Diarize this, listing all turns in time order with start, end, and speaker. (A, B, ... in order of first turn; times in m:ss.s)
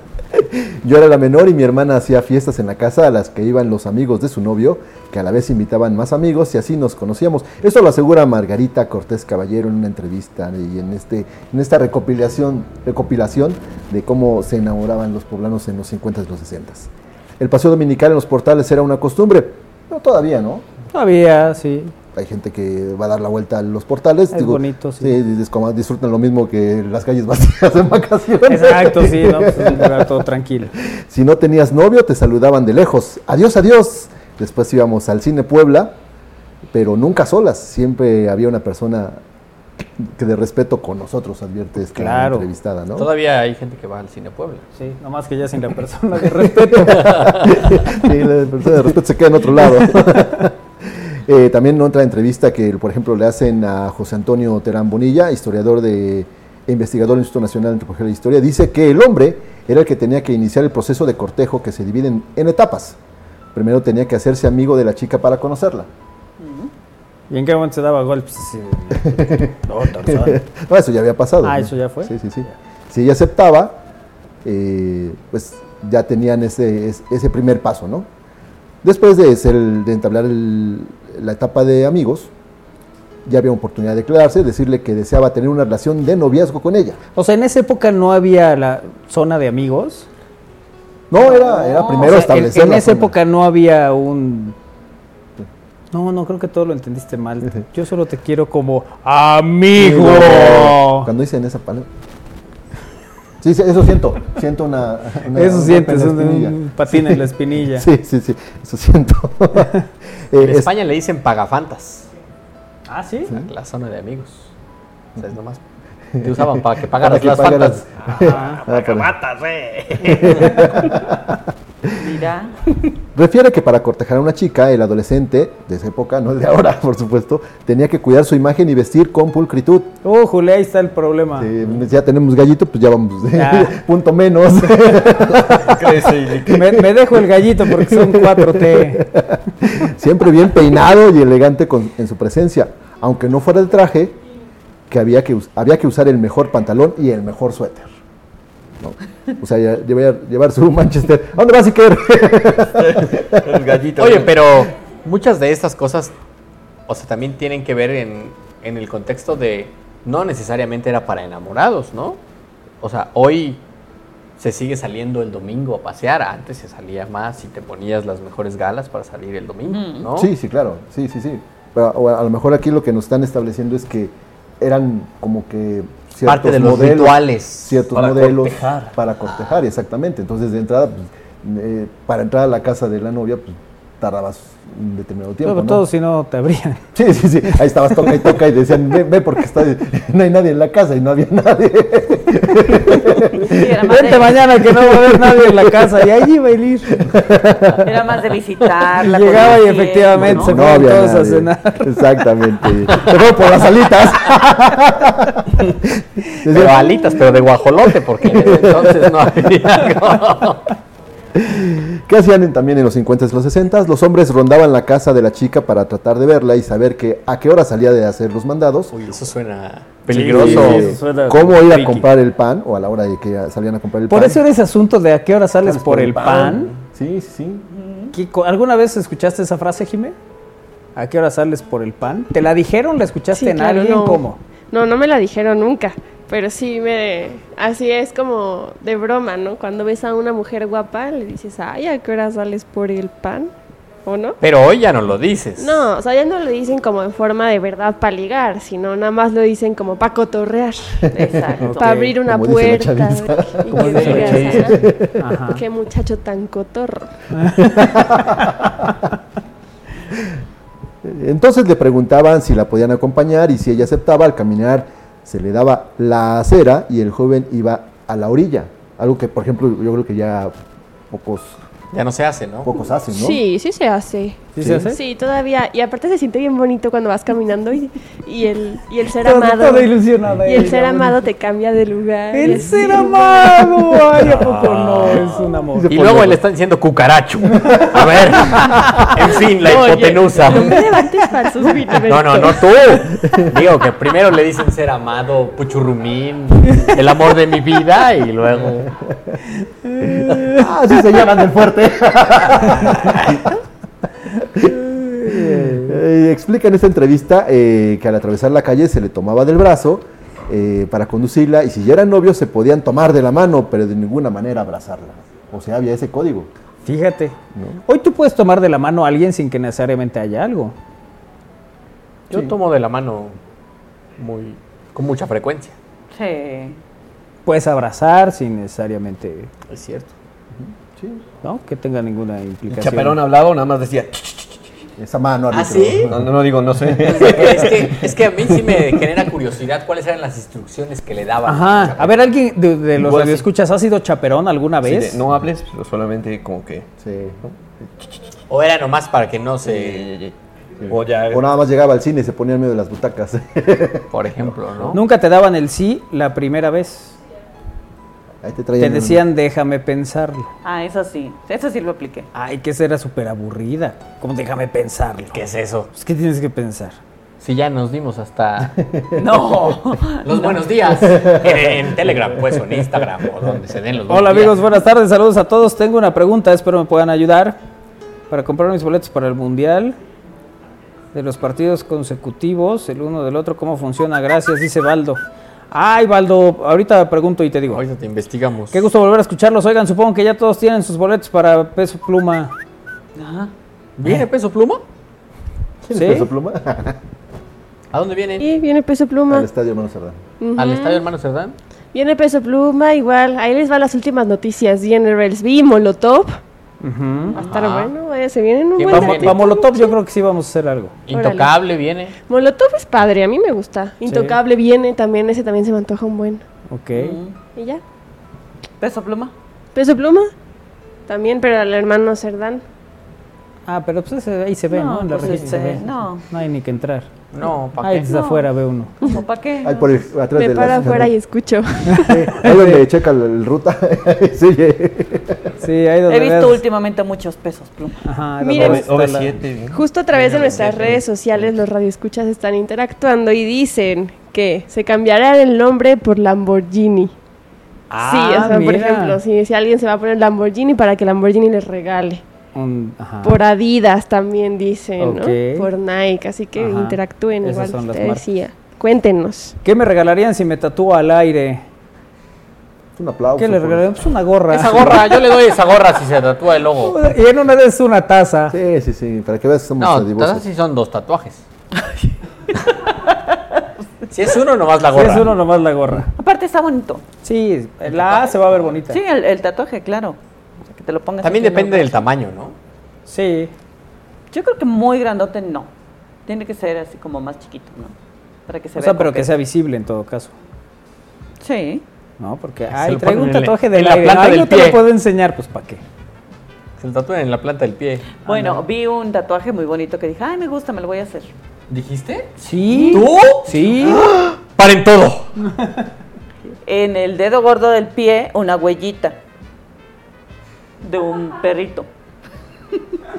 0:00.4-0:20.7 A
0:20.9-0:21.9 B
0:22.1-0:30.1 A
0:24.3-0:25.2 B
0:28.5-0:30.7 B
0:30.9-0:36.0 A
0:36.7-0:39.2 A
0:40.0-0:43.1 A
0:41.9-0:42.5 B
0:43.0-0:44.6 C
0:44.8-0:47.2 B
0:46.4-1:03.0 A
0:47.0-0:47.6 C
1:03.5-1:05.9 A
1:06.4-1:06.7 D
1:07.3-1:10.4 B
1:09.0-1:13.8 A
1:11.4-1:12.5 B
1:14.4-1:18.1 A
1:18.8-1:22.3 A
1:23.2-1:27.0 A
1:27.2-1:30.1 B
1:31.1-1:33.2 A
1:31.2-1:32.1 D
1:31.7-1:34.6 B
1:35.9-1:41.1 B
1:39.8-1:41.9 A
1:43.4-1:49.8 A
1:45.3-1:47.9 B
1:50.3-1:50.7 A
1:50.4-1:52.1 C
1:52.9-1:53.3 B
1:53.3-1:54.5 C
1:55.2-1:55.6 C
1:56.2-1:59.2 A
1:56.2-1:58.0 C
1:58.1-1:58.6 B
2:00.0-2:01.4 A
2:00.0-2:00.6 B
2:02.0-2:02.6 D
2:03.2-2:10.0 A
2:10.0-2:11.5 B
2:11.4-2:16.8 A
2:13.3-2:13.7 B
2:15.6-2:16.6 E
2:16.5-2:19.1 B
2:17.6-2:24.2 A
2:24.9-2:27.9 A
2:28.8-2:33.4 A
2:32.8-2:34.4 E
2:34.0-2:36.2 C
2:36.9-2:42.2 C
2:42.8-2:43.6 C
2:44.4-2:50.3 C
2:49.7-2:50.1 D
2:50.1-3:05.8 A
2:56.2-2:57.9 C
2:57.9-2:58.9 E
3:05.4-3:06.9 B
3:07.0-3:13.6 A
3:13.5-3:14.4 D
3:13.8-3:16.9 B
3:14.7-3:15.9 A
3:17.0-3:17.8 A
3:17.8-3:20.6 D
3:19.0-3:22.2 B
3:20.2-3:27.4 A
3:26.5-3:30.7 C
3:28.2-3:29.4 A
3:31.3-3:39.3 A
3:38.9-3:41.0 C
3:40.1-3:42.1 B
3:40.2-3:44.5 A
3:44.1-3:46.7 B
3:45.6-3:47.6 A
3:47.7-3:48.1 D
3:48.1-3:50.2 B
3:51.0-3:54.4 B
3:53.3-4:03.5 F
4:04.0-4:04.4 F
4:04.4-4:05.8 C
4:05.6-4:14.8 F
4:11.1-4:12.0 D
4:11.6-4:12.1 B
4:12.2-4:15.2 A
4:13.8-4:14.6 B
4:13.8-4:14.7 C
4:15.2-4:15.6 B
4:15.5-4:17.2 F
4:17.3-4:18.0 B
4:17.6-4:18.7 A
4:21.0-4:30.5 A
4:31.1-4:31.6 A
4:31.9-4:32.7 C
4:32.6-4:33.4 A
4:33.1-4:39.9 F
4:34.6-4:35.0 B
4:34.6-4:34.9 A
4:39.2-4:41.2 B
4:40.4-4:43.6 F
4:42.3-4:46.0 B
4:44.2-4:50.9 C
4:45.7-4:46.4 A
4:50.3-4:52.9 F
4:52.0-4:58.9 C
4:59.9-5:00.6 B
5:00.4-5:03.5 A
5:02.8-5:03.1 B
5:04.5-5:16.5 A
5:05.2-5:06.0 B
5:16.8-5:20.8 B
5:17.5-5:17.8 A
5:22.3-5:23.4 C
5:24.2-5:25.8 C
5:26.1-5:26.8 D
5:27.5-5:29.5 B
5:29.7-5:30.1 C
5:30.6-5:31.2 A
5:31.4-5:33.2 B
5:32.7-5:34.6 E
5:35.0-5:37.8 A
5:35.5-5:36.1 C
5:36.1-5:38.1 E
5:37.1-5:42.2 C
5:41.5-5:45.2 B
5:43.0-5:43.5 E
5:44.8-5:46.9 E
5:47.0-5:47.4 A
5:47.4-5:48.2 E
5:48.5-5:50.1 C
5:49.6-5:50.3 E
5:50.8-5:54.5 A
5:50.9-5:51.4 E
5:54.1-5:55.0 C
5:54.9-5:57.2 B
5:58.4-5:59.2 A
5:58.8-6:00.5 B
6:00.6-6:02.3 D
6:02.3-6:05.4 B
6:05.3-6:05.9 C
6:05.9-6:07.0 B
6:07.4-6:08.8 C
6:09.2-6:10.6 D
6:10.2-6:14.6 C
6:11.0-6:12.6 A
6:14.1-6:17.6 B
6:18.3-6:20.0 B
6:21.1-6:25.2 B
6:25.7-6:27.8 B
6:27.7-6:28.8 C
6:28.7-6:32.5 B
6:33.2-6:33.5 D
6:34.0-6:34.8 C
6:35.9-6:37.0 A
6:35.9-6:36.3 B
6:37.9-6:38.5 C
6:38.4-6:39.5 F
6:39.3-6:40.2 A
6:40.4-6:41.0 F
6:40.6-6:41.6 C
6:41.9-6:46.4 F
6:46.8-6:47.4 B
6:47.4-6:47.9 C
6:47.4-6:49.9 F
6:48.8-6:49.4 C
6:48.9-6:51.0 B
6:51.1-6:52.1 C
6:51.1-6:51.6 F
6:52.3-6:56.4 F
6:54.0-6:54.4 B
6:56.7-6:57.2 B
6:56.9-6:57.4 D
6:57.6-6:57.8 F
6:58.8-6:59.3 D
6:59.8-7:00.3 F
7:01.1-7:02.6 F
7:03.7-7:07.1 B
7:04.7-7:06.2 D
7:07.3-7:08.1 C
7:07.8-7:08.9 B
7:08.0-7:08.5 D
7:09.0-7:09.9 D
7:09.6-7:11.2 A
7:10.4-7:12.2 F
7:11.9-7:12.8 B
7:12.0-7:15.5 A
7:15.6-7:16.6 B
7:16.1-7:18.0 D
7:18.0-7:19.3 B
7:18.4-7:18.8 F
7:18.5-7:21.0 E
7:19.7-7:27.1 F
7:20.1-7:20.9 C
7:27.9-7:29.2 B
7:28.0-7:32.2 F
7:32.6-7:33.4 B
7:33.2-7:39.6 F
7:35.0-7:35.7 B
7:36.6-7:38.2 B
7:39.6-7:41.6 B
7:43.0-7:44.0 A
7:43.4-7:45.1 B
7:44.5-7:47.0 C
7:46.8-7:48.6 B
7:48.5-7:50.4 A
7:49.8-7:51.4 C
7:54.1-7:55.4 C
7:54.9-7:56.1 B
7:56.2-7:57.0 D
7:57.2-7:59.0 B
7:57.9-7:58.7 C
7:58.9-8:02.0 D
8:01.2-8:02.6 C
8:03.1-8:03.5 B
8:04.3-8:05.7 D
8:06.3-8:07.9 D
8:08.5-8:09.3 D
8:08.8-8:10.4 B
8:11.4-8:11.8 D
8:12.2-8:15.8 B
8:12.7-8:14.8 C
8:16.8-8:18.2 C
8:18.2-8:21.3 D
8:18.3-8:18.6 B
8:21.7-8:22.4 C
8:22.4-8:24.1 B
8:22.7-8:23.1 D
8:22.9-8:25.3 C
8:26.6-8:29.2 D
8:30.8-8:31.9 D